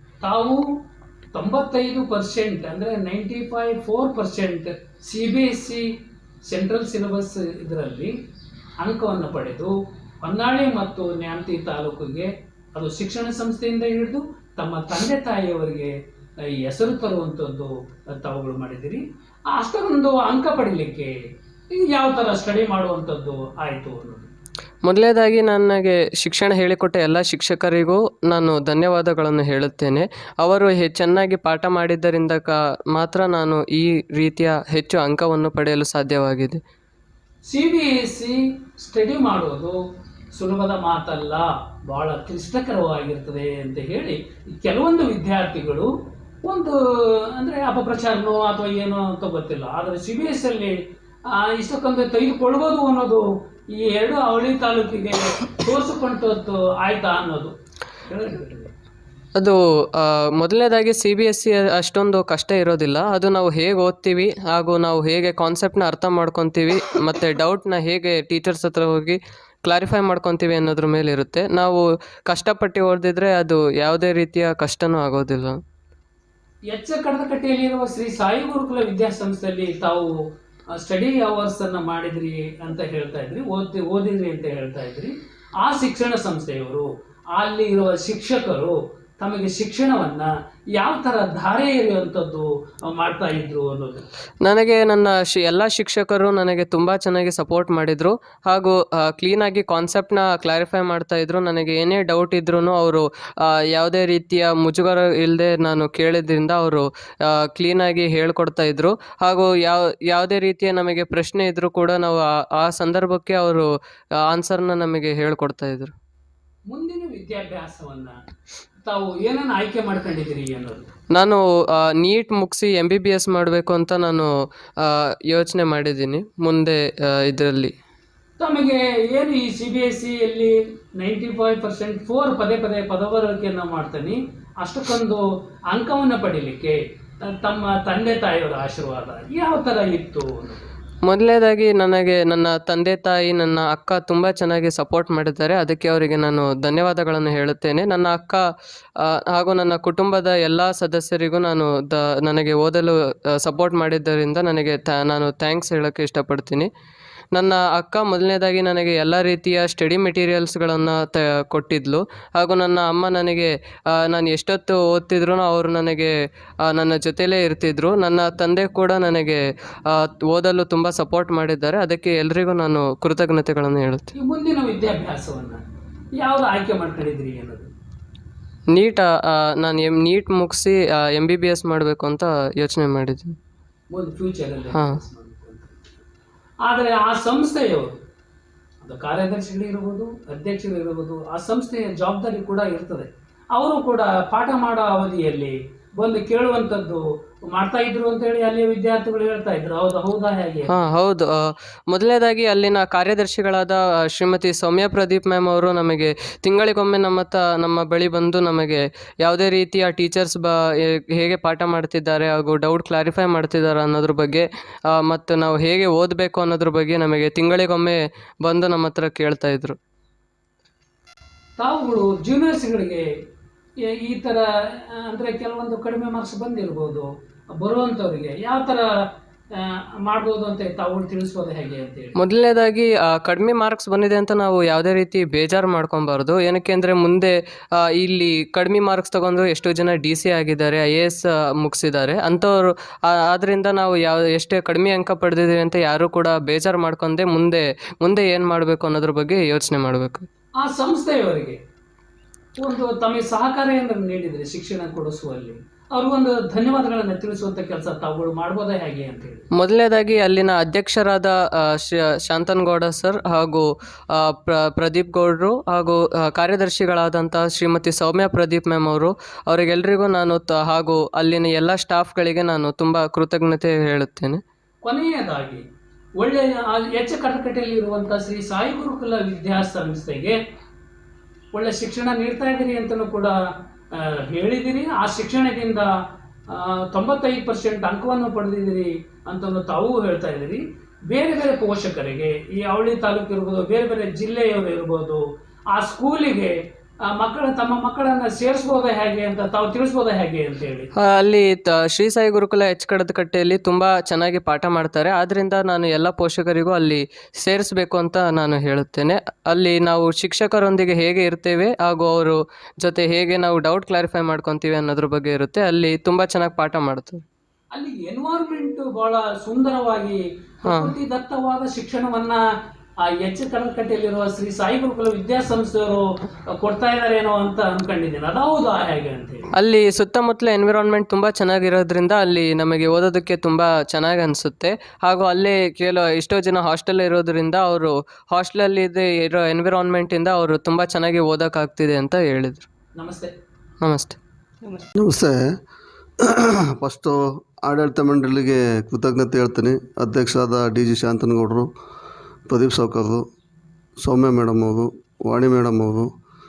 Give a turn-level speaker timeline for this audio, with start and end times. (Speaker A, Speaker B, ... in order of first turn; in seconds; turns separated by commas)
Speaker A: 0.2-0.6, Speaker A: 1.3-5.9, Speaker A: 6.5-8.1, Speaker A: 8.8-15.9, Speaker A: 16.4-21.1, Speaker A: 21.7-24.3, Speaker B: 24.9-36.6, Speaker A: 37.5-39.8, Speaker A: 40.3-45.9, Speaker A: 46.4-57.5, Speaker A: 58.1-58.7, Speaker B: 59.4-75.6, Speaker A: 76.7-80.1, Speaker A: 80.7-94.0, Speaker B: 94.4-113.7, Speaker B: 114.3-115.9, Speaker A: 116.7-118.2, Speaker A: 118.8-120.9, Speaker B: 121.1-127.7, Speaker A: 128.4-140.7, Speaker B: 141.1-148.4, Speaker B: 149.0-156.7, Speaker B: 157.3-166.1, Speaker B: 166.7-174.1, Speaker A: 174.2-175.6, Speaker A: 176.2-177.7, Speaker B: 178.7-183.4, Speaker A: 183.9-185.8, Speaker A: 186.7-188.0, Speaker A: 188.8-200.7, Speaker B: 200.7-201.4, Speaker B: 201.9-219.8, Speaker A: 221.6-223.1, Speaker A: 223.8-229.0, Speaker A: 229.5-232.2, Speaker B: 232.2-250.3, Speaker A: 250.6-251.6, Speaker A: 252.6-259.5, Speaker B: 259.6-274.4, Speaker A: 274.8-275.6, Speaker A: 276.2-280.4, Speaker A: 281.5-283.4, Speaker A: 283.9-285.9, Speaker A: 286.5-300.9, Speaker B: 301.0-317.2, Speaker A: 317.7-322.4, Speaker B: 320.6-320.9, Speaker A: 323.0-329.5, Speaker B: 329.6-342.7, Speaker A: 343.0-343.3, Speaker B: 343.8-344.2, Speaker C: 345.0-345.5, Speaker C: 346.2-351.7, Speaker C: 352.5-353.2, Speaker C: 354.0-356.1